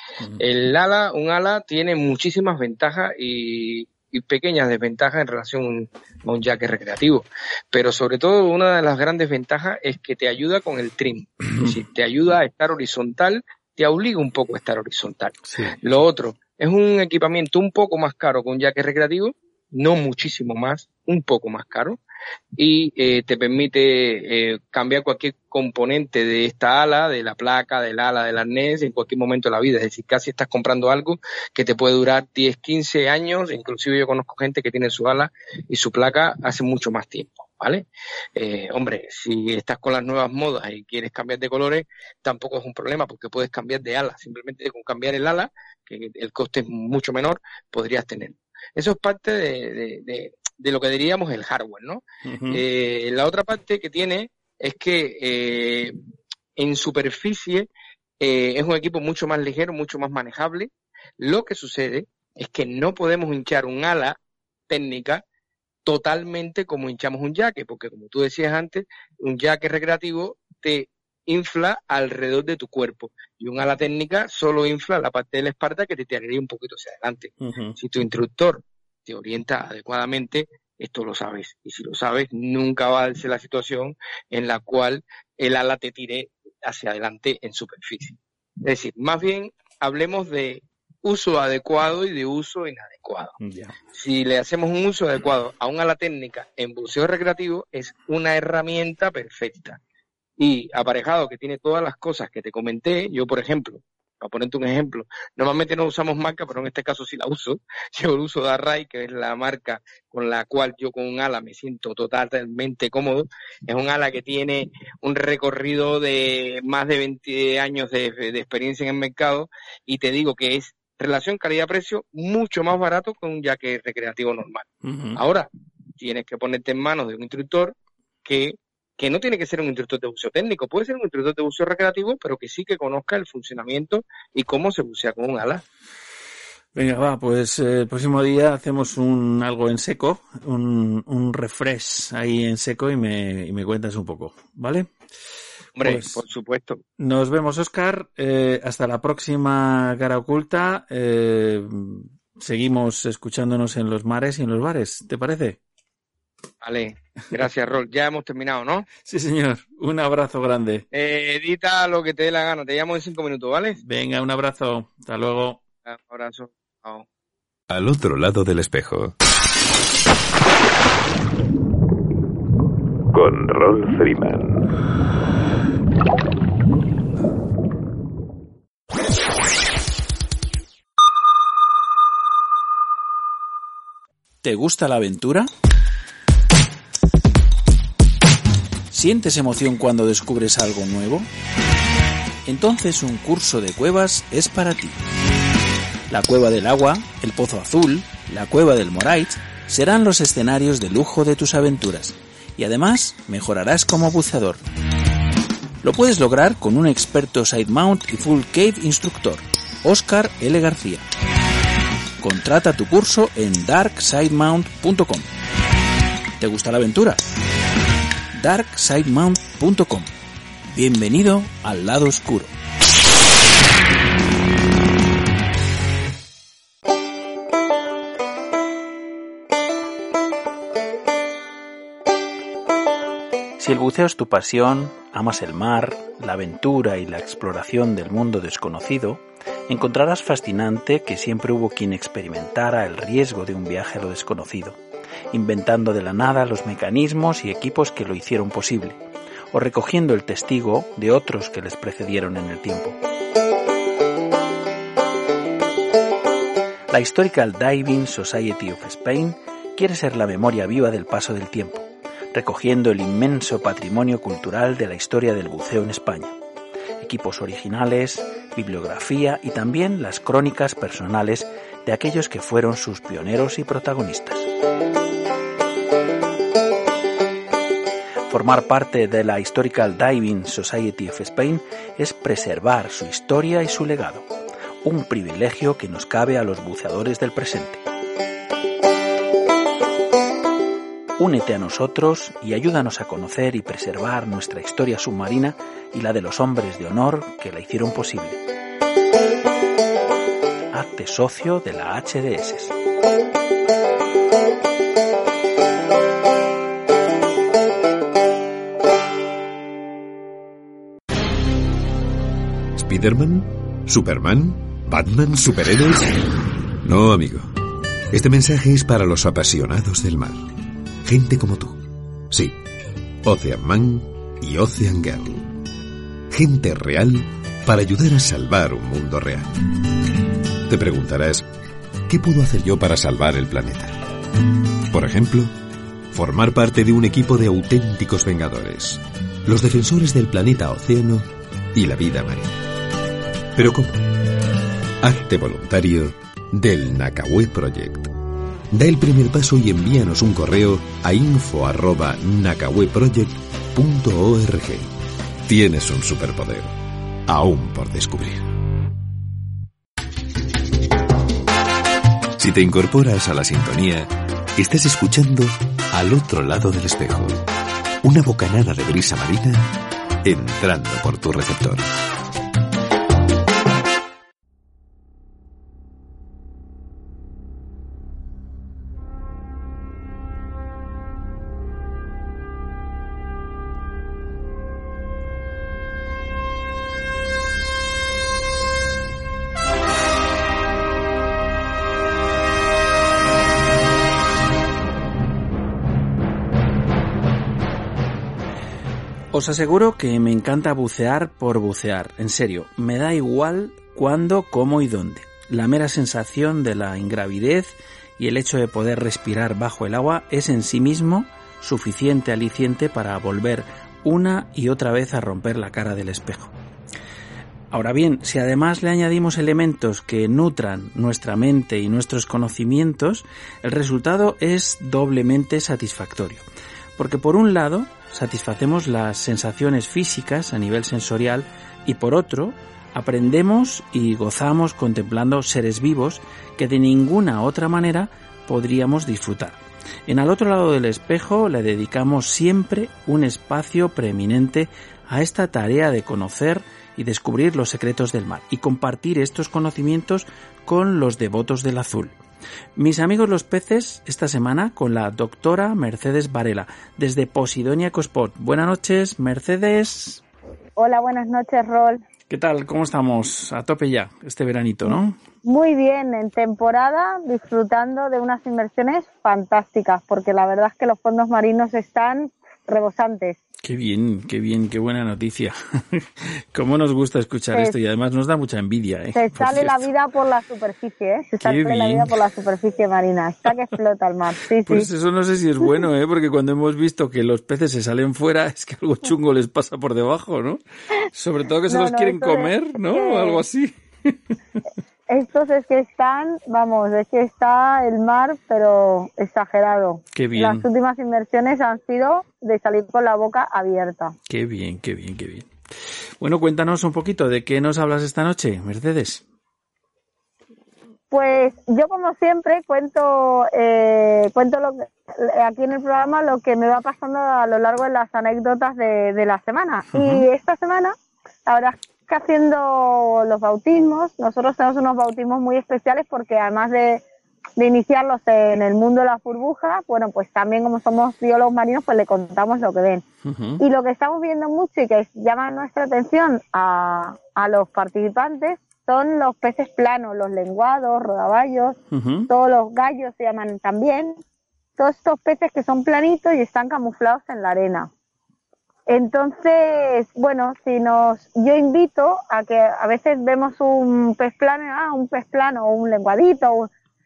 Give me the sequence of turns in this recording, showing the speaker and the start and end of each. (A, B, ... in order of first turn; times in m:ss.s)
0:00.4-0:22.0 A
0:15.4-0:15.8 B
0:22.6-0:55.9 A
0:52.2-0:52.6 B
0:56.6-0:57.7 A
0:58.2-1:04.2 A
1:04.7-1:05.2 A
1:05.8-1:33.4 A
1:17.4-1:17.8 B
1:33.4-1:33.8 B
1:33.9-1:39.8 A
1:40.4-2:15.6 A
2:04.8-2:05.2 B
2:16.7-2:24.9 B
2:25.8-2:26.8 A
2:25.8-2:26.2 B
2:27.0-2:35.6 B
2:36.6-2:38.9 A
2:39.0-2:40.8 B
2:40.9-2:43.8 A
2:43.8-2:45.6 B
2:45.9-2:47.1 A
2:47.7-2:49.2 C
2:53.1-2:54.6 C
3:04.4-3:05.5 B
3:08.9-3:11.3 B
3:12.4-3:15.0 B
3:16.1-3:24.6 B
3:25.8-3:31.0 B
3:32.2-3:35.3 B
3:36.4-3:37.2 B
3:38.3-3:40.1 B
3:40.7-3:42.5 B
3:53.6-4:04.8 B
4:05.3-4:09.0 B
4:09.5-4:13.0 B
4:16.9-4:26.4 B
4:27.0-4:34.5 B
4:38.3-4:44.3 B
4:44.8-4:47.8 B
4:51.2-4:58.4 B
5:00.7-5:02.7 B
5:12.8-5:17.6 C
5:18.1-5:20.5 C
5:21.0-5:22.6 C
5:23.2-5:25.5 C
5:26.3-5:29.5 C
5:30.6-5:31.4 C
5:32.1-5:34.0 C
5:34.9-5:35.5 C
5:36.1-5:42.6 C
5:43.6-5:44.0 C
5:45.0-5:48.1 C
5:48.7-5:54.9 C
5:55.4-5:56.7 C
5:57.3-5:58.5 C
6:02.4-6:07.4 C
6:08.0-6:09.7 C
6:10.2-6:11.9 C
6:39.3-6:56.5 B
6:57.7-7:06.4 B
7:07.0-7:32.2 B
7:32.8-7:40.2 B
7:40.8-7:42.0 D
7:42.3-7:45.2 B
7:44.9-7:53.4 D
7:53.6-7:59.9 B
7:59.1-8:04.9 D
8:01.4-8:02.2 B
8:04.6-8:14.2 B
8:11.7-8:13.4 D
8:15.1-8:24.2 D
8:20.1-8:20.7 B
8:24.3-8:25.5 B
8:26.2-8:29.2 B
8:31.1-8:40.9 D
8:39.9-8:40.3 B
8:41.4-8:47.0 D
8:47.6-8:53.0 D
8:53.2-8:53.6 B
8:53.6-9:04.2 D
9:01.9-9:02.3 B
9:04.8-9:07.9 D
9:08.9-9:16.7 D